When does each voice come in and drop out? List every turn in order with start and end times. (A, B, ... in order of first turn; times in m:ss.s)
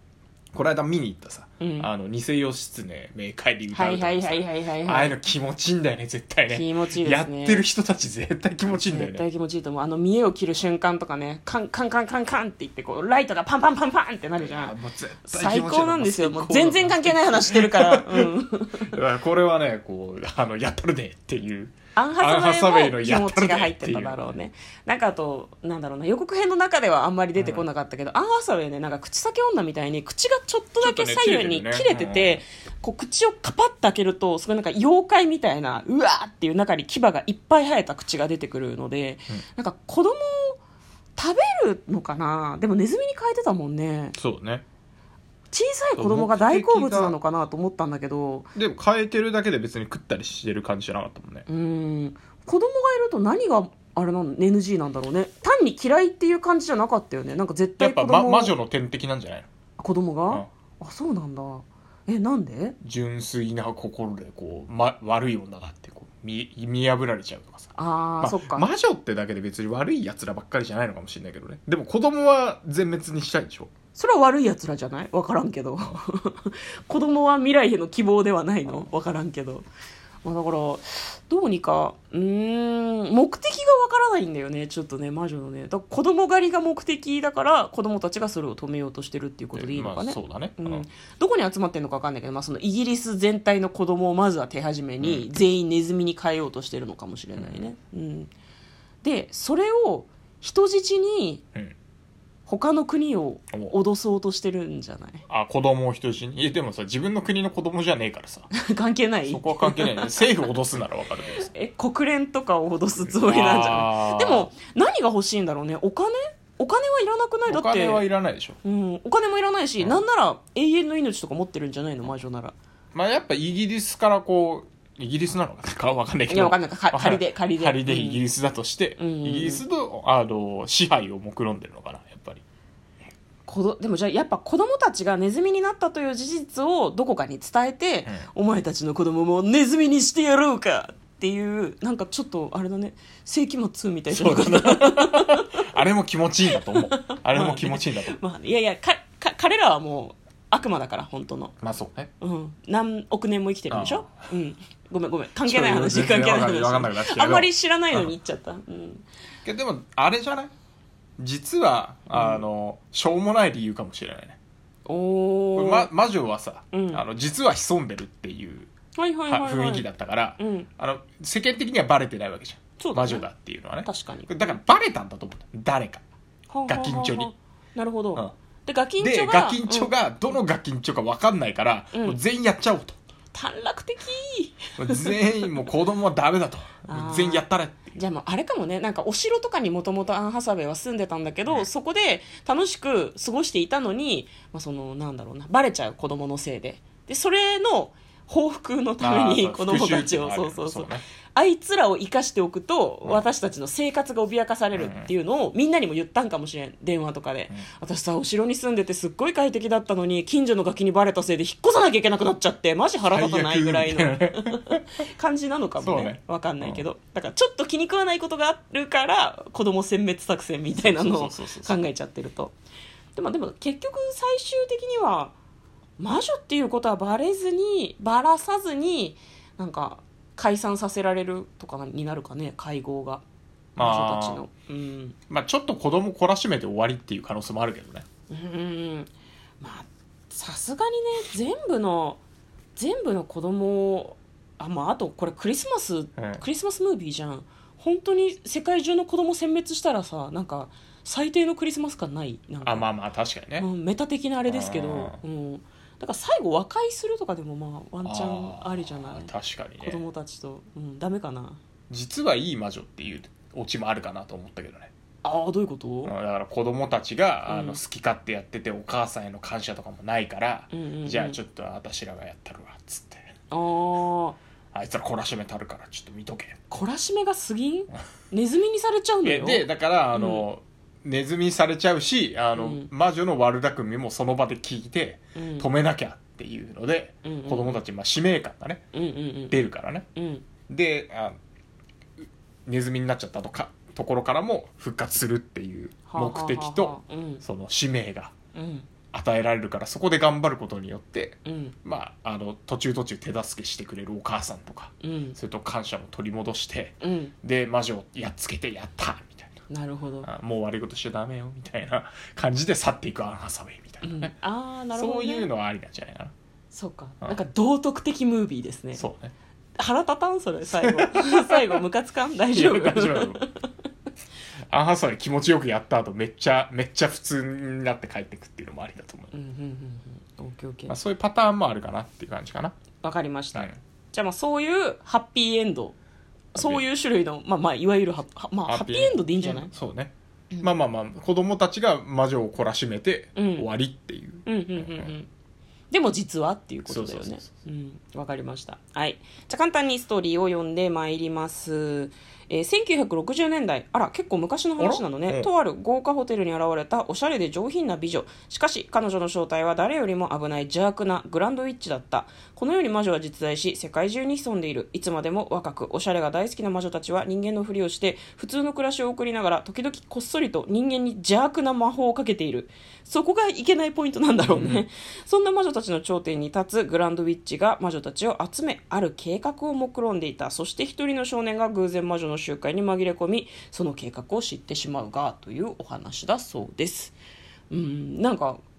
0:00.5-0:09.2 A
0:01.6-0:01.9 B
0:03.7-0:05.2 B
0:06.5-0:07.7 B
0:08.7-0:18.9 B
0:14.4-0:24.4 A
0:22.0-0:40.6 B
0:27.4-0:27.6 A
0:30.8-0:32.4 A
0:41.2-0:44.2 B
0:44.2-0:44.6 A
0:45.5-0:48.5 B
0:46.0-0:47.2 A
0:48.6-0:51.4 A
0:51.5-0:58.6 B
0:57.8-0:59.5 A
0:59.8-1:02.8 B
1:02.8-1:13.7 A
1:07.8-1:08.7 B
1:14.0-1:19.7 B
1:20.2-1:38.3 B
1:29.5-1:30.9 A
1:35.0-1:35.3 A
1:37.4-1:37.6 A
1:39.0-1:41.4 B
1:42.5-1:45.2 B
1:45.3-1:48.5 A
1:48.5-1:50.1 B
1:49.3-1:51.5 A
1:51.4-1:58.1 B
1:53.0-1:54.5 A
1:57.5-1:58.6 A
1:58.6-2:02.5 B
2:02.9-2:12.4 A
2:06.3-2:08.2 B
2:09.0-2:09.6 B
2:13.5-2:25.7 B
2:24.1-2:28.2 A
2:26.5-2:31.6 B
2:31.6-2:32.1 A
2:32.2-2:39.0 B
2:33.7-2:34.1 A
2:35.4-2:38.1 A
2:39.4-2:40.5 A
2:41.2-2:44.4 A
2:42.1-2:42.4 B
2:44.9-2:45.9 B
2:45.6-2:48.7 A
2:46.7-2:47.0 B
2:49.0-2:49.9 B
2:49.3-2:56.0 A
2:50.4-2:50.7 B
2:52.8-2:53.2 B
2:53.8-2:54.6 B
2:56.5-2:59.9 B
2:56.7-2:57.3 A
2:59.0-3:03.0 A
3:03.3-3:05.7 B
3:04.8-3:08.0 A
3:06.9-3:42.5 B
3:19.0-3:21.0 A
3:24.8-3:25.1 A
3:33.1-3:34.9 A
3:35.8-3:36.8 A
3:40.8-3:41.8 A
3:43.2-3:45.4 B
3:46.0-3:53.2 B
3:53.8-3:54.4 A
3:53.8-3:55.2 B
3:55.3-3:58.1 A
3:58.3-4:02.2 B
4:02.8-4:12.9 B
4:06.2-4:06.4 A
4:12.6-4:13.7 A
4:13.6-4:19.3 B
4:14.5-4:15.2 A
4:18.0-4:20.0 A
4:19.8-4:21.6 B
4:21.9-4:24.9 A
4:25.2-4:26.1 B
4:26.0-4:33.3 A
4:27.5-4:27.8 B
4:30.7-4:31.4 B
4:33.5-4:34.4 B
4:34.7-4:36.6 A
4:36.7-4:40.5 B
4:39.2-4:48.8 A
4:42.6-4:42.9 B
4:45.4-4:45.7 B
4:47.2-4:47.8 B
4:48.9-4:50.4 B
4:49.5-4:50.1 A
4:50.7-4:51.4 A
4:52.2-4:58.3 A
4:56.1-4:57.4 B
4:58.6-4:58.9 B
4:59.1-5:09.6 A
5:01.4-5:01.8 B
5:05.0-5:05.4 B
5:07.0-5:07.3 B
5:09.7-5:10.3 B
5:10.2-5:14.3 A
5:14.0-5:15.5 B
5:14.9-5:16.3 A
5:16.7-5:19.0 B
5:18.9-5:19.3 A
5:19.8-5:23.7 B
5:20.7-5:21.8 A
5:22.5-5:23.4 A
5:24.7-5:29.3 A
5:29.3-5:31.0 B
5:30.9-5:32.8 A
5:33.0-5:36.0 B
5:36.5-5:36.8 A
5:36.5-5:39.7 B
5:38.7-5:45.1 A
5:43.4-5:43.7 B
5:44.5-5:45.3 B
5:45.9-6:27.2 B
5:46.9-5:47.5 A
5:54.8-5:55.5 A
6:14.5-6:14.8 A
6:27.7-6:28.6 B